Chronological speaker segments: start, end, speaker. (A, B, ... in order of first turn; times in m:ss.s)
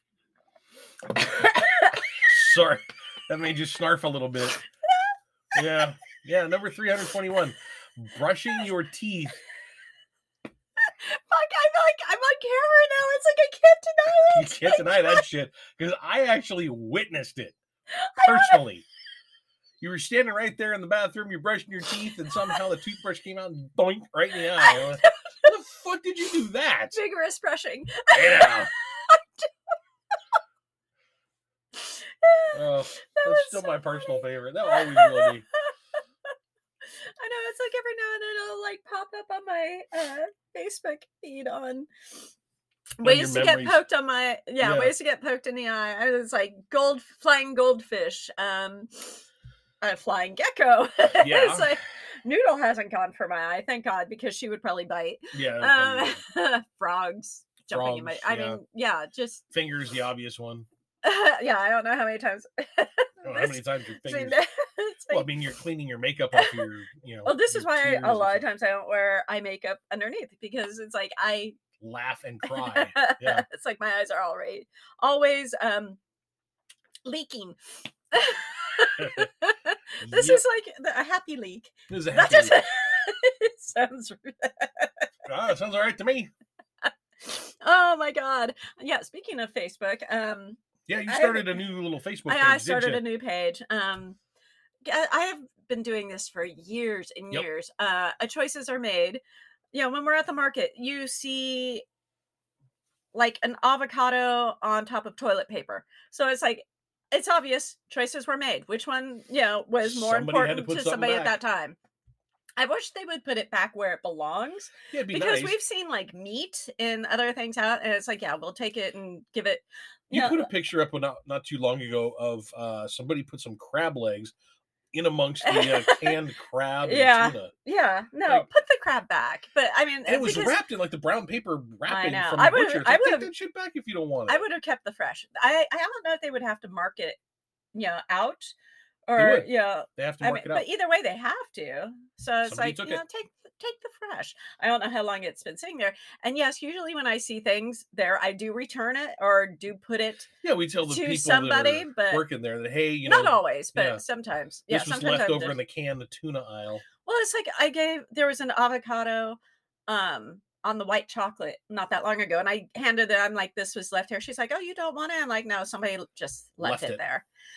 0:01.2-0:02.0 A
0:02.2-0:04.6 B
0:05.5-0:09.4 B
0:10.8-0:15.2 A
0:14.3-0:17.6 B
0:17.9-0:18.6 A
0:18.2-0:18.8 B
0:19.8-0:27.0 B
0:24.6-0:25.5 A
0:26.9-0:29.5 A
0:28.1-0:28.7 B
0:31.8-0:35.7 A
0:32.5-0:35.4 B
0:36.8-0:41.9 A
0:43.0-0:49.2 A
0:43.0-0:43.8 B
0:44.6-0:44.9 B
0:49.8-0:59.4 A
0:51.2-0:51.8 B
0:55.3-0:56.2 B
0:57.7-0:58.6 B
0:59.5-1:00.7 B
1:01.0-1:05.3 A
1:03.2-1:04.4 B
1:05.1-1:08.5 B
1:06.3-1:06.6 A
1:07.2-1:11.6 A
1:11.8-1:13.4 B
1:12.4-1:16.0 A
1:17.0-1:17.6 A
1:18.1-1:25.1 A
1:19.0-1:19.3 B
1:20.0-1:20.4 B
1:21.9-1:22.6 B
1:25.3-1:26.3 B
1:26.8-1:31.6 A
1:30.9-1:33.0 B
1:32.3-1:34.2 A
1:34.8-1:39.2 A
1:39.7-1:41.8 A
1:43.1-1:51.8 A
1:49.8-1:51.4 B
1:52.6-2:00.5 A
1:54.9-1:55.6 B
2:00.1-2:04.3 B
2:04.9-2:07.5 B
2:05.4-2:06.2 A
2:06.8-2:10.6 A
2:10.1-2:14.5 B
2:11.9-2:13.3 A
2:14.3-2:17.2 A
2:17.8-2:18.5 A
2:19.1-2:30.3 A
2:19.2-2:20.7 B
2:22.4-2:23.0 B
2:30.4-2:34.0 B
2:30.9-2:32.3 A
2:33.0-2:35.6 A
2:34.7-2:36.9 B
2:37.0-2:47.2 A
2:46.6-2:47.0 B